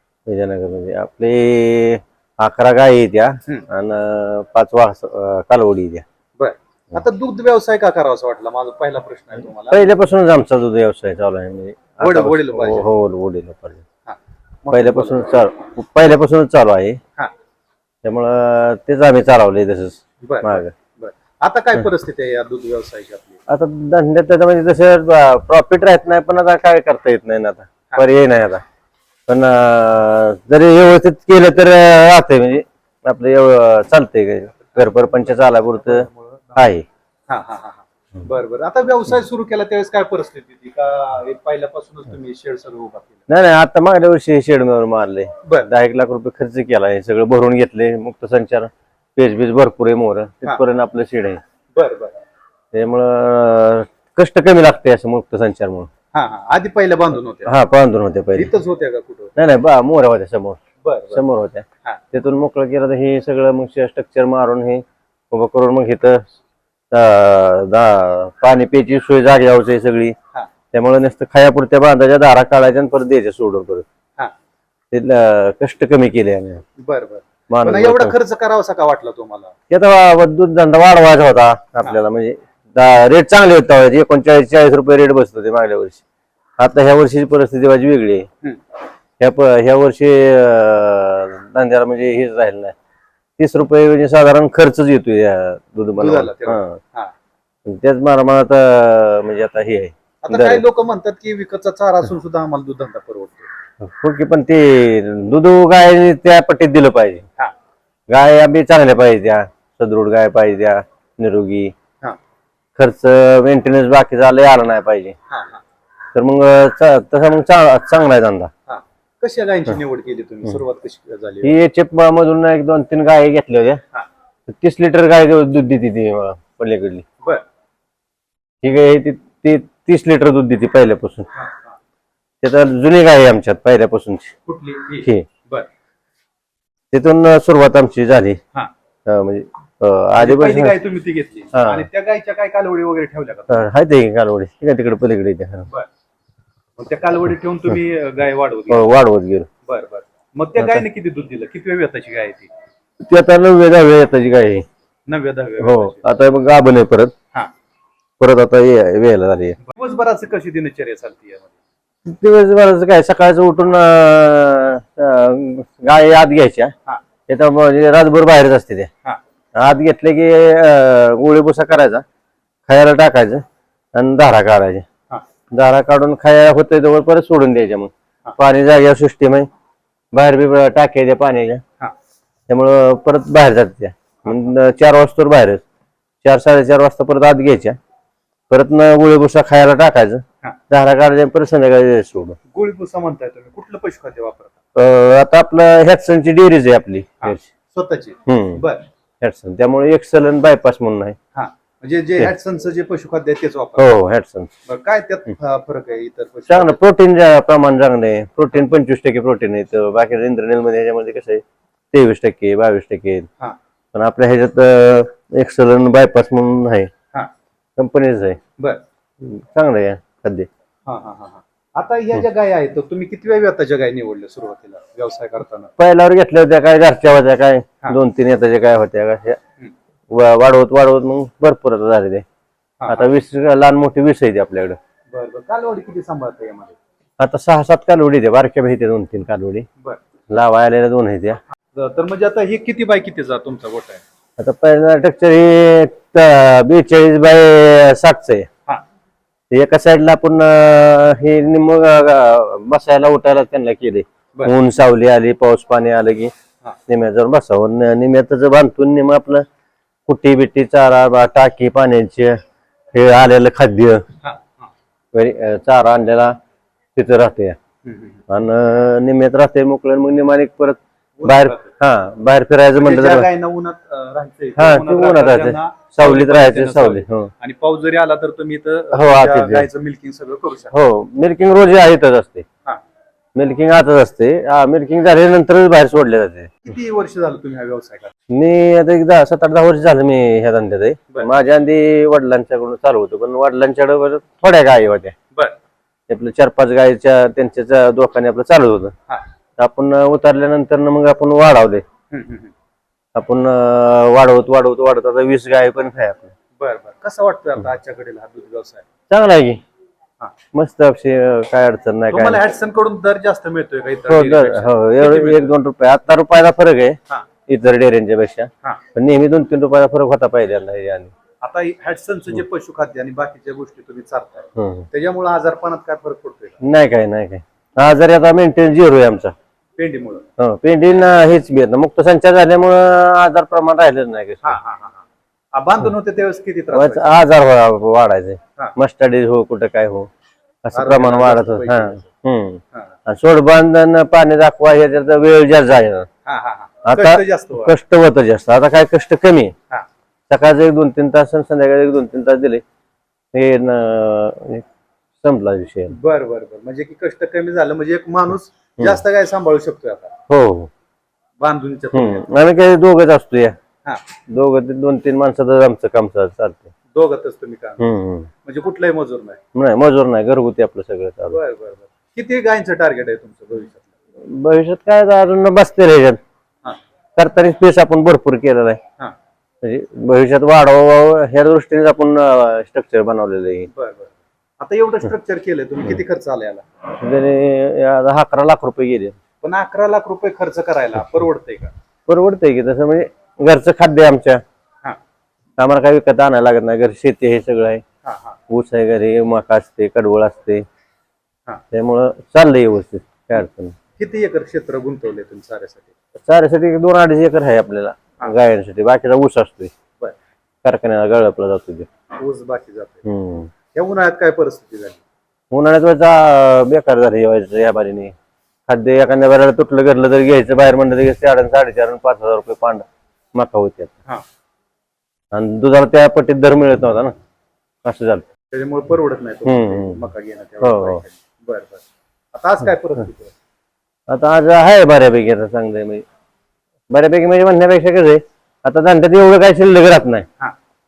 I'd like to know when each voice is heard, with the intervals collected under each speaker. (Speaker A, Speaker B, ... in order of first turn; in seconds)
Speaker A: 0.3-6.0, 9.7-13.8, 14.7-17.0, 18.0-20.7, 23.5-28.6, 29.3-36.9, 43.3-51.4, 52.7-55.9, 57.5-58.5, 59.4-60.6, 61.1-66.2, 66.9-70.2, 70.7-73.8, 74.9-76.6, 77.5-78.1, 79.7-86.0, 86.6-88.3, 89.2-92.8, 93.4-96.8, 97.7-100.6, 103.8-107.2, 108.1-111.7, 112.8-115.2, 116.2-118.5, 121.4-123.8, 124.5-127.0, 128.6-131.3, 132.4-134.3, 136.9-138.4, 139.1-140.7, 141.5-141.9, 143.5-145.7, 148.7-149.5, 153.0-154.7, 155.6-157.1, 158.2-159.6, 162.1-166.7, 167.3-168.9, 169.6-172.0, 172.7-173.4, 173.9-174.8, 175.5-179.5, 180.1-181.6, 182.5-185.6, 186.2-187.8, 188.5-192.4, 194.8-197.5, 198.3-198.6, 199.2-201.2, 203.8-204.5, 206.5-213.3, 213.9-216.9, 217.8-218.4, 219.2-220.5, 225.8-229.4, 230.1-232.2, 232.9-234.8, 237.2-239.7, 240.3-241.4, 244.4-248.5, 249.5-256.3, 256.9-259.4, 260.1-262.4, 262.9-264.0, 265.1-266.3, 267.0-267.6, 268.3-273.3, 274.6-277.3, 278.9-279.7, 280.7-282.4, 283.4-286.5, 288.3-295.1, 296.1-298.9, 299.6-301.8, 303.1-306.3, 309.1-309.6, 310.5-312.4, 314.1-321.1, 324.6-324.9, 326.6-329.3, 330.4-334.6, 336.7-340.1, 340.6-346.1, 346.9-349.5, 350.3-352.6, 353.3-354.7, 355.2-355.9, 360.3-360.7, 361.9-363.5, 364.3-366.7, 367.8-368.3, 369.6-371.4, 374.2-376.2, 377.2-378.8, 379.6-383.7, 387.0-389.1, 392.1-394.4, 395.6-397.8, 398.5-400.6, 401.7-403.8, 406.2-409.7, 410.6-411.9, 413.1-413.5, 415.5-418.1, 418.7-423.9, 425.3-427.1, 427.8-428.2, 429.5-430.0, 430.6-431.0, 434.1-436.0, 436.9-440.3
Speaker B: 6.4-9.9, 12.0-12.9, 14.1-15.5, 20.2-23.4, 34.7-36.7, 37.3-43.2, 45.5-45.7, 51.8-52.1, 56.1-57.5, 58.4-59.3, 60.8-61.2, 76.8-79.5, 96.0-97.1, 100.2-103.5, 115.3-115.6, 118.7-121.5, 131.3-131.8, 134.5-135.7, 140.2-143.7, 146.8-148.9, 149.7-152.5, 155.1-156.0, 159.6-161.5, 192.5-194.6, 197.2-198.8, 201.3-203.9, 204.7-206.8, 220.9-225.7, 232.8-233.1, 235.1-236.8, 241.7-244.0, 264.2-264.7, 267.8-268.2, 271.2-271.7, 272.8-280.8, 286.6-288.1, 302.1-302.5, 306.6-308.9, 312.1-315.5, 321.4-326.6, 329.8-330.2, 334.4-337.2, 340.7-342.1, 346.3-347.8, 355.9-360.1, 361.4-362.3, 366.9-367.9, 368.4-369.4, 371.3-373.9, 383.7-386.6, 389.4-391.7, 398.0-398.4, 404.0-405.9, 412.2-413.1, 413.7-415.0, 428.5-433.4